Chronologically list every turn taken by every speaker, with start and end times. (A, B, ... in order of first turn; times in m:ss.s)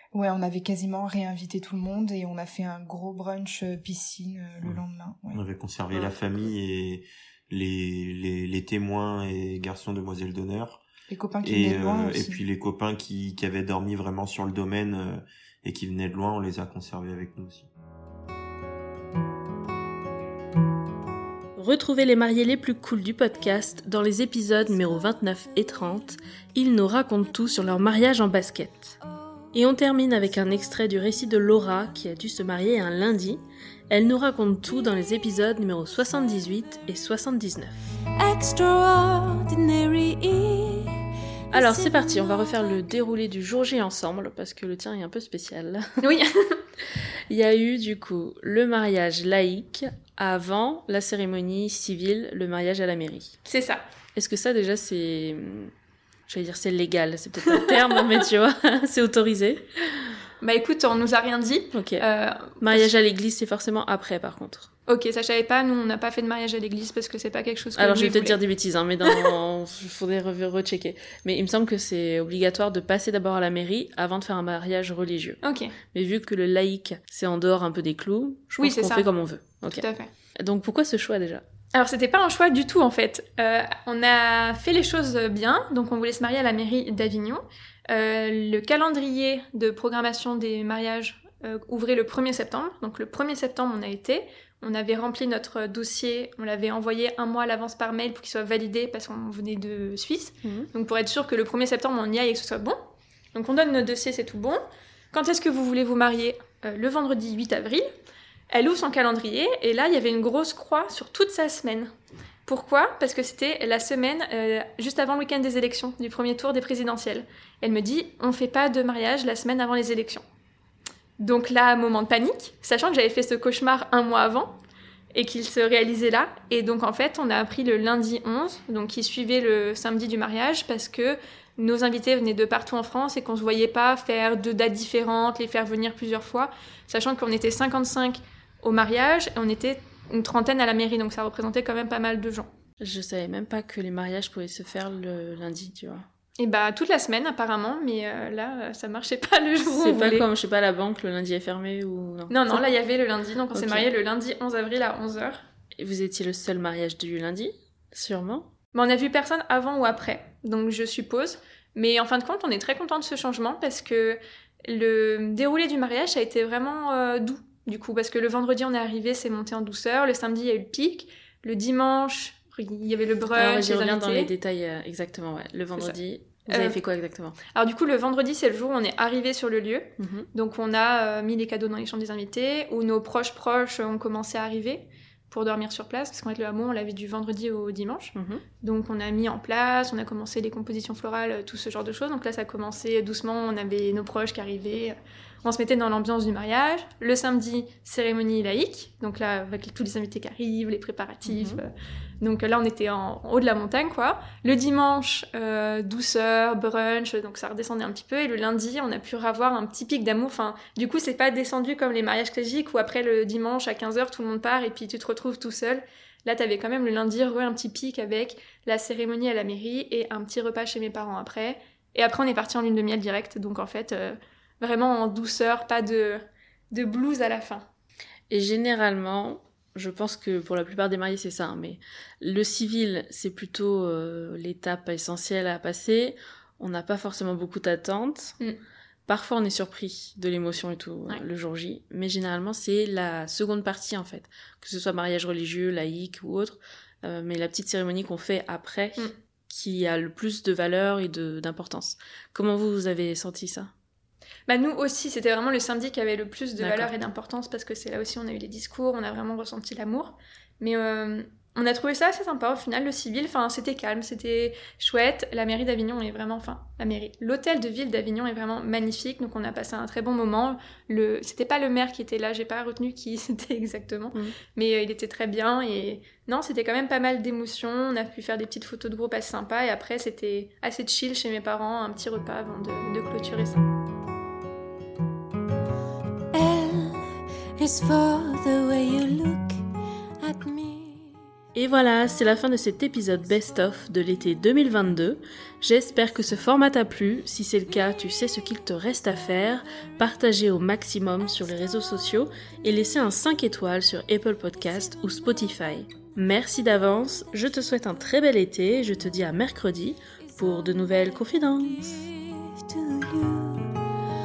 0:00.1-0:05.4 A
0:05.3-0:10.8 B
0:05.9-0:06.5 C
0:11.1-0:12.4 A
0:11.4-0:17.7 B
0:21.6-0:29.0 C
0:29.5-0:37.8 C
0:38.2-0:42.1 D
0:41.5-0:45.9 C
0:46.0-0:46.3 E
0:47.3-0:53.4 C
0:53.5-0:53.8 E
0:54.2-0:55.7 C
0:56.3-0:59.7 C
0:57.5-0:58.2 E
1:00.4-1:02.9 E
1:01.7-1:02.1 C
1:02.6-1:04.7 C
1:04.9-1:08.4 E
1:07.8-1:15.4 C
1:09.0-1:09.3 E
1:15.4-1:15.8 E
1:15.9-1:19.8 C
1:18.6-1:19.1 E
1:19.7-1:20.1 E
1:20.4-1:21.4 C
1:21.7-1:42.8 E
1:43.3-1:47.9 E
1:48.5-1:51.9 E
1:52.5-2:00.2 E
2:01.2-2:04.6 E
2:05.1-2:22.5 E
2:22.8-2:26.1 C
2:26.4-2:30.3 E
2:29.6-2:32.7 C
2:32.3-2:35.4 E
2:33.5-2:33.9 C
2:35.8-2:38.5 C
2:38.7-2:54.3 E
2:53.4-2:57.4 C
2:55.8-2:56.8 E
2:57.5-3:47.7 E
3:00.0-3:00.3 C
3:08.2-3:08.4 C
3:21.2-3:21.6 C
3:48.3-3:58.4 C
3:59.1-4:13.7 C
4:14.5-4:43.6 E
4:16.6-4:17.1 C
4:46.3-4:49.6 D
4:50.2-4:51.2 D
4:51.6-5:12.1 C
5:11.9-5:13.8 D